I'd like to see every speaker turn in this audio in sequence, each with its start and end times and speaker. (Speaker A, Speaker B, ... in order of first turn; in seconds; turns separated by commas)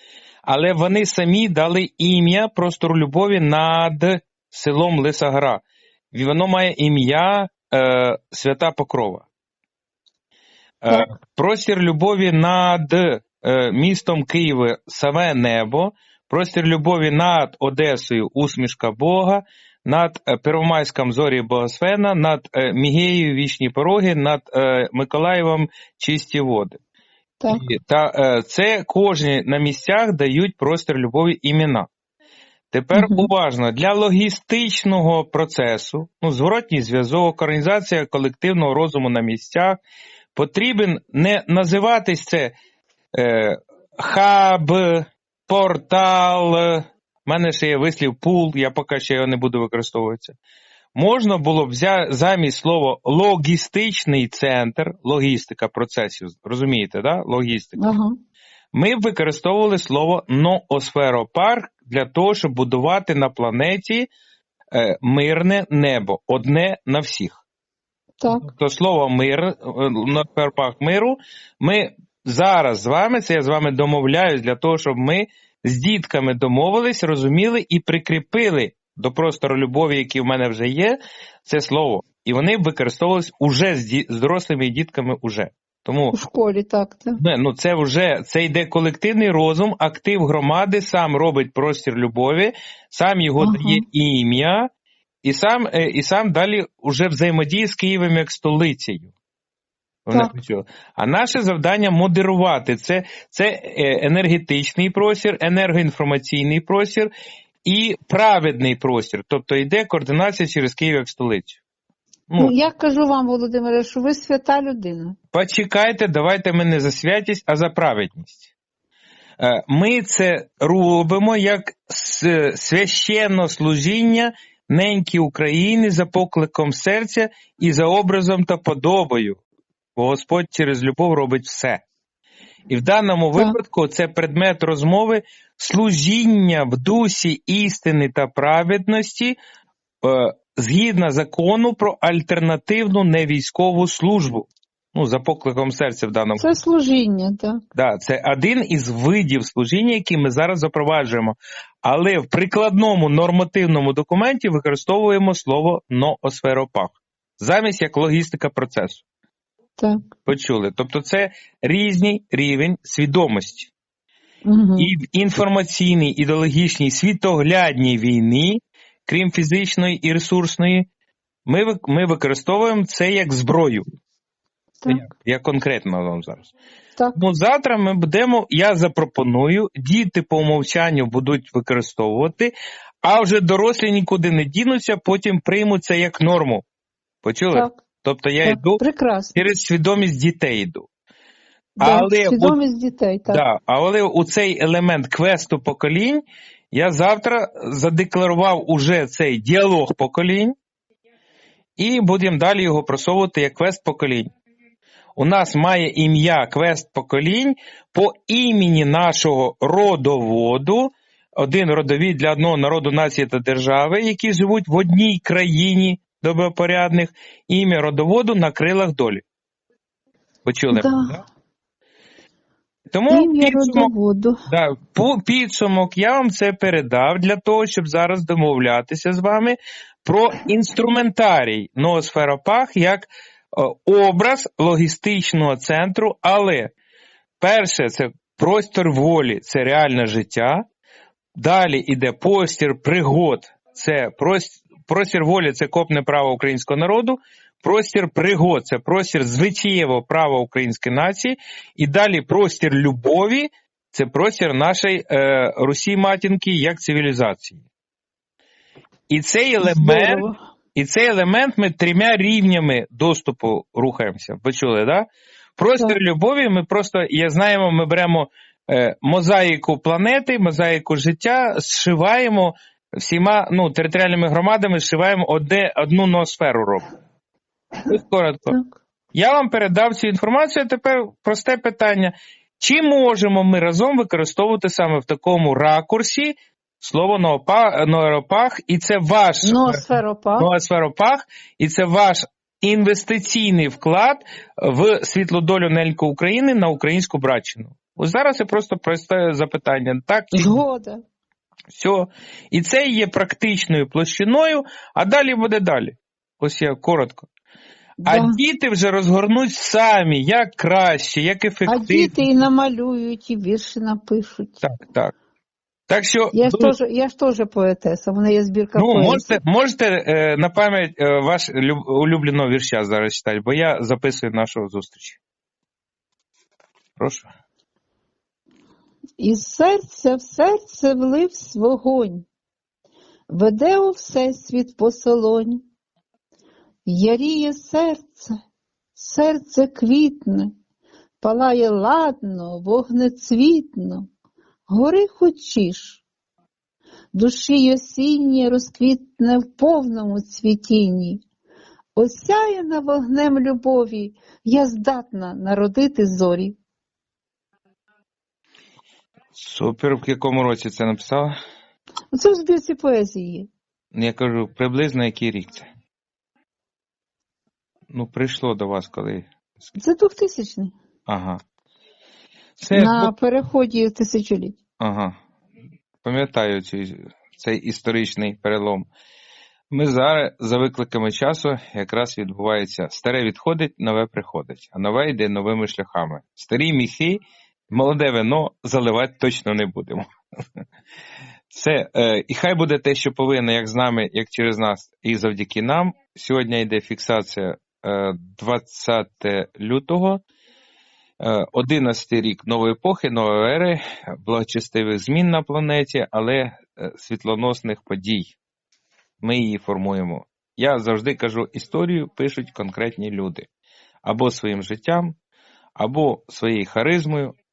Speaker A: 0.5-5.6, Speaker A: 6.1-9.2, Speaker A: 10.8-26.8, Speaker B: 10.9-11.1, Speaker B: 27.4-27.7, Speaker A: 27.5-31.9, Speaker A: 32.7-39.8, Speaker B: 32.9-33.3, Speaker A: 40.3-42.5, Speaker A: 43.1-50.3, Speaker A: 50.9-57.8, Speaker B: 57.8-58.1, Speaker A: 58.7-64.1, Speaker A: 64.7-67.4, Speaker B: 68.2-68.5, Speaker A: 68.3-86.2, Speaker B: 86.1-87.2, Speaker A: 87.2-94.7, Speaker B: 93.4-93.8, Speaker A: 95.2-99.1, Speaker A: 100.1-107.1, Speaker A: 107.6-111.6, Speaker A: 112.3-112.5, Speaker B: 112.4-115.2, Speaker A: 115.3-118.5, Speaker A: 119.4-129.4, Speaker A: 129.9-131.8, Speaker A: 132.7-139.3, Speaker A: 140.0-146.4, Speaker B: 146.4-147.6, Speaker A: 147.7-159.0, Speaker B: 159.8-160.1, Speaker A: 160.2-163.7, Speaker B: 164.4-164.9, Speaker A: 164.8-170.8, Speaker A: 171.4-173.8, Speaker A: 174.9-176.5, Speaker B: 177.0-177.2, Speaker A: 177.1-182.5, Speaker A: 183.0-186.6, Speaker A: 187.2-188.8, Speaker B: 187.5-187.8, Speaker B: 188.4-189.4, Speaker A: 189.3-190.9, Speaker B: 191.8-193.4, Speaker A: 191.8-192.6, Speaker A: 193.3-200.5, Speaker A: 201.8-204.3, Speaker A: 205.2-219.2, Speaker A: 220.4-221.2, Speaker B: 220.7-221.2, Speaker A: 222.9-223.9, Speaker B: 223.1-224.3, Speaker A: 224.5-236.7, Speaker A: 237.4-240.6, Speaker A: 241.4-257.6, Speaker A: 259.1-265.1, Speaker B: 259.6-260.4, Speaker A: 265.6-276.8, Speaker A: 277.9-278.6, Speaker A: 279.1-289.8, Speaker B: 289.4-290.5, Speaker A: 290.4-300.6, Speaker B: 300.3-301.0, Speaker A: 301.7-307.3, Speaker B: 308.0-308.4, Speaker A: 308.1-312.3, Speaker B: 311.6-314.6, Speaker A: 314.6-315.1, Speaker A: 315.9-316.7, Speaker B: 316.3-319.4, Speaker A: 318.8-325.2, Speaker A: 327.0-327.3, Speaker B: 329.2-332.2, Speaker B: 333.3-335.6, Speaker B: 336.9-338.3, Speaker B: 338.9-340.5, Speaker B: 341.2-344.1, Speaker B: 344.7-346.0, Speaker B: 347.1-351.2, Speaker B: 351.9-356.6, Speaker A: 359.3-361.3, Speaker B: 362.1-363.5, Speaker A: 363.9-365.6, Speaker A: 367.9-369.3, Speaker B: 369.8-370.7, Speaker A: 371.1-371.4, Speaker A: 372.6-373.1, Speaker B: 372.7-374.6, Speaker A: 374.8-375.1, Speaker A: 376.0-378.9, Speaker A: 379.7-390.0, Speaker A: 391.5-400.2, Speaker A: 401.2-408.3, Speaker A: 409.2-413.5, Speaker A: 414.0-415.1, Speaker A: 415.8-417.3